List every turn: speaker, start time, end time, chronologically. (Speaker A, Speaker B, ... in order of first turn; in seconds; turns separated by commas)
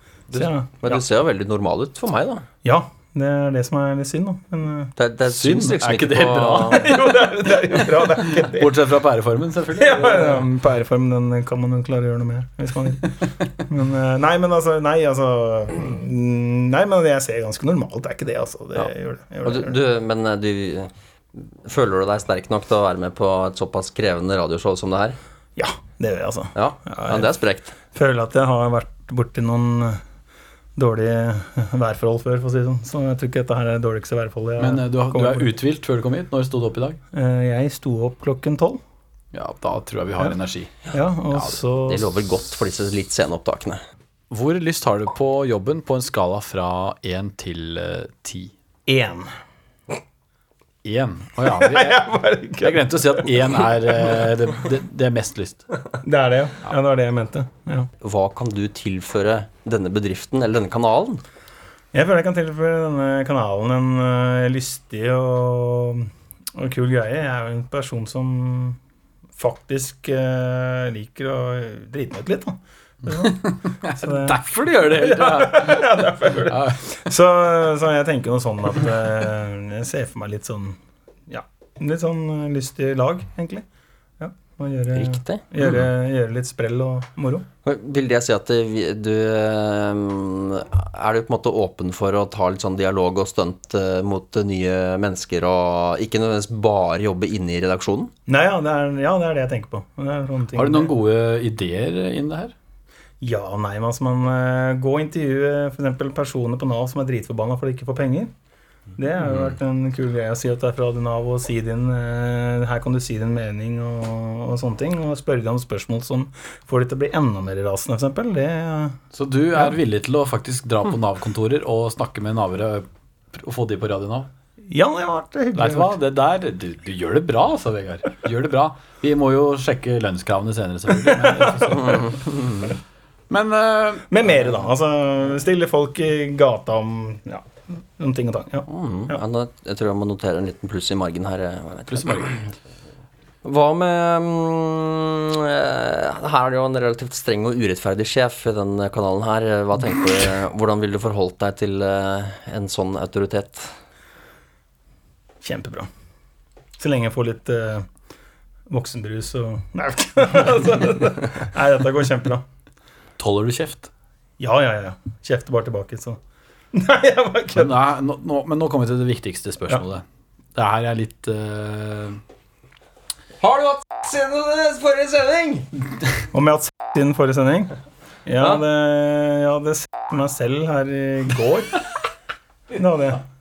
Speaker A: 0.3-2.5, Speaker B: 0.3-1.0, Speaker B: 2.6-4.9, Speaker A: 5.0-6.9, Speaker C: 5.3-10.4, Speaker B: 6.7-8.8, Speaker B: 9.7-19.8, Speaker A: 19.4-25.2, Speaker B: 25.6-27.3, Speaker A: 26.5-27.8, Speaker B: 27.9-30.0, Speaker B: 30.8-35.5, Speaker C: 34.6-37.0, Speaker B: 37.1-38.8, Speaker C: 39.3-41.5, Speaker B: 40.9-42.3, Speaker A: 41.9-43.8, Speaker C: 44.3-48.5, Speaker B: 48.9-49.3, Speaker C: 50.8-52.0, Speaker B: 51.4-53.4, Speaker C: 52.6-55.6, Speaker B: 56.0-57.9, Speaker A: 58.0-61.2, Speaker B: 61.9-68.8, Speaker B: 69.4-83.6, Speaker C: 73.1-75.9, Speaker C: 76.5-76.8, Speaker B: 84.2-87.5, Speaker A: 84.9-85.6, Speaker A: 87.6-98.1, Speaker B: 98.3-100.9, Speaker C: 100.5-102.5, Speaker B: 103.2-108.3, Speaker B: 109.0-119.0, Speaker C: 119.1-124.3, Speaker B: 124.7-126.0, Speaker C: 125.5-132.1, Speaker B: 131.1-132.0, Speaker A: 131.8-132.7, Speaker C: 133.3-134.2, Speaker B: 134.1-139.2, Speaker A: 138.7-142.3, Speaker C: 141.9-142.3, Speaker A: 143.4-153.7, Speaker B: 155.4-155.9, Speaker B: 156.8-157.9, Speaker B: 158.7-162.4, Speaker C: 163.2-163.9, Speaker B: 164.4-166.2, Speaker B: 166.7-167.7, Speaker C: 167.5-170.0, Speaker C: 170.5-172.2, Speaker A: 173.4-175.7, Speaker B: 176.3-177.7, Speaker B: 178.2-181.8, Speaker B: 182.7-183.2